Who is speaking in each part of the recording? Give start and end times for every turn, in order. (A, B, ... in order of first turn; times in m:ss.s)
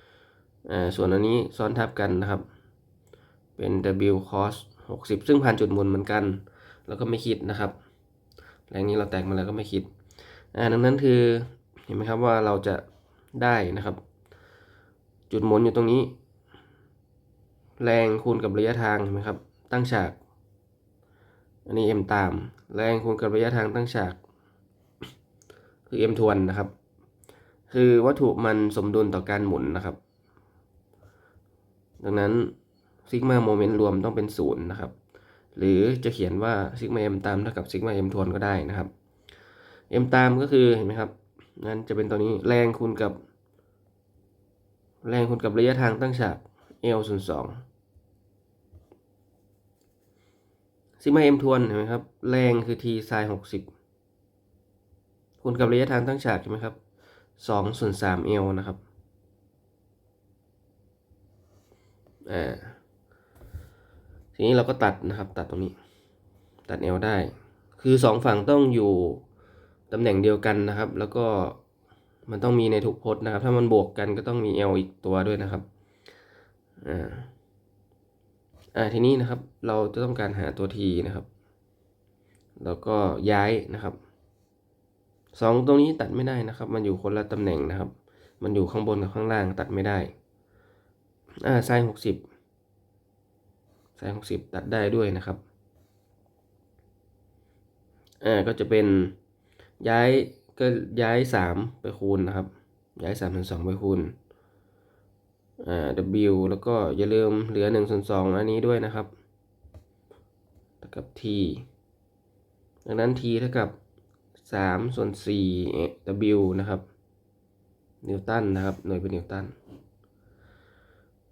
0:00.7-0:02.4 A
0:03.6-0:07.7 A
0:08.7-0:09.9 A
0:10.5-0:12.8 A
0:13.4-0:14.0 A
0:15.3-0:16.1 A
0:17.8-0:20.2 A
0:21.7-0:24.2 A
0:25.9-0:26.7 A
0:27.7-0:30.0 A
0:32.0-0:32.5 A
0:33.1-0:34.9 A
0:35.6-0:38.9 A
0:39.9-0:43.2 A
0:45.0-0:47.6 A
0:51.0-0:53.7 A
0:55.4-0:56.8 A
0:57.4-0:58.8 A
1:02.3-1:02.8 A
1:04.3-1:05.7 A
1:06.7-1:09.2 A
1:09.9-1:11.6 A
1:12.3-1:15.6 A
1:16.8-1:17.3 A
1:18.7-1:21.3 A
1:22.6-1:24.0 A
1:25.3-1:30.1 A
1:31.4-1:32.2 A
1:34.0-1:35.4 A
1:38.2-1:39.1 A
1:39.8-1:44.1 A
1:45.6-1:49.1 A
1:50.8-1:51.6 A
1:52.8-1:53.8 A
1:54.4-1:56.8 A
1:58.0-1:59.5 A